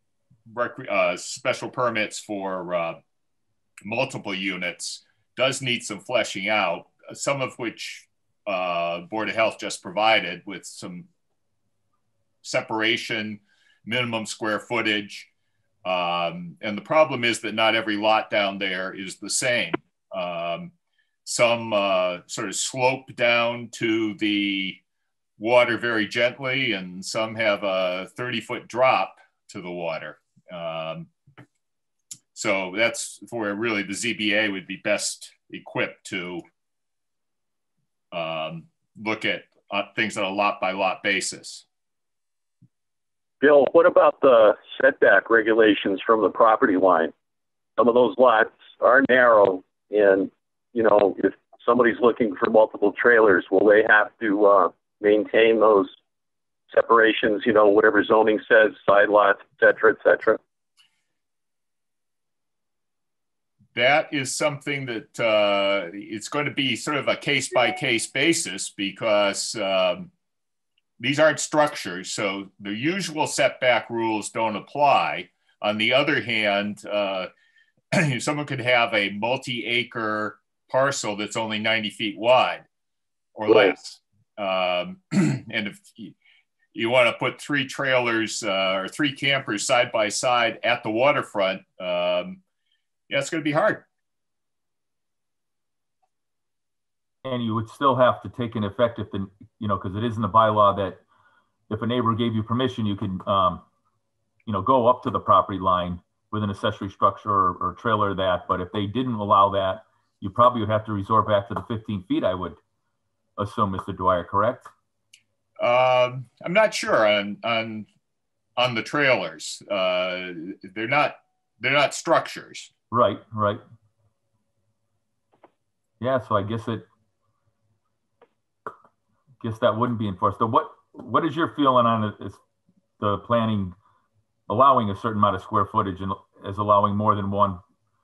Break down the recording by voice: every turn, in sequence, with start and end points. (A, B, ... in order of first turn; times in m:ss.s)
0:00.5-0:03.0 A
0:03.8-0:11.1 A
0:12.4-0:15.3 A
0:15.8-0:20.7 A
0:21.2-0:24.8 A
0:25.4-0:31.1 A
0:32.3-0:36.4 A
0:38.1-0:41.6 A
0:43.4-0:47.1 B
0:47.8-0:56.0 B
0:56.7-1:00.4 B
1:03.7-1:10.1 A
1:11.0-1:17.3 A
1:17.9-1:22.6 A
1:23.3-1:26.1 A
1:26.7-1:32.4 A
1:33.1-1:33.8 A
1:37.2-1:41.0 C
1:41.7-1:43.6 C
1:44.4-1:52.6 C
1:53.4-1:54.7 C
1:55.6-1:57.9 A
1:58.6-2:02.7 A
2:02.9-2:03.6 C
2:06.0-2:06.8 C
2:09.4-2:12.4 C
2:13.0-2:13.7 C
2:14.5-2:17.6 C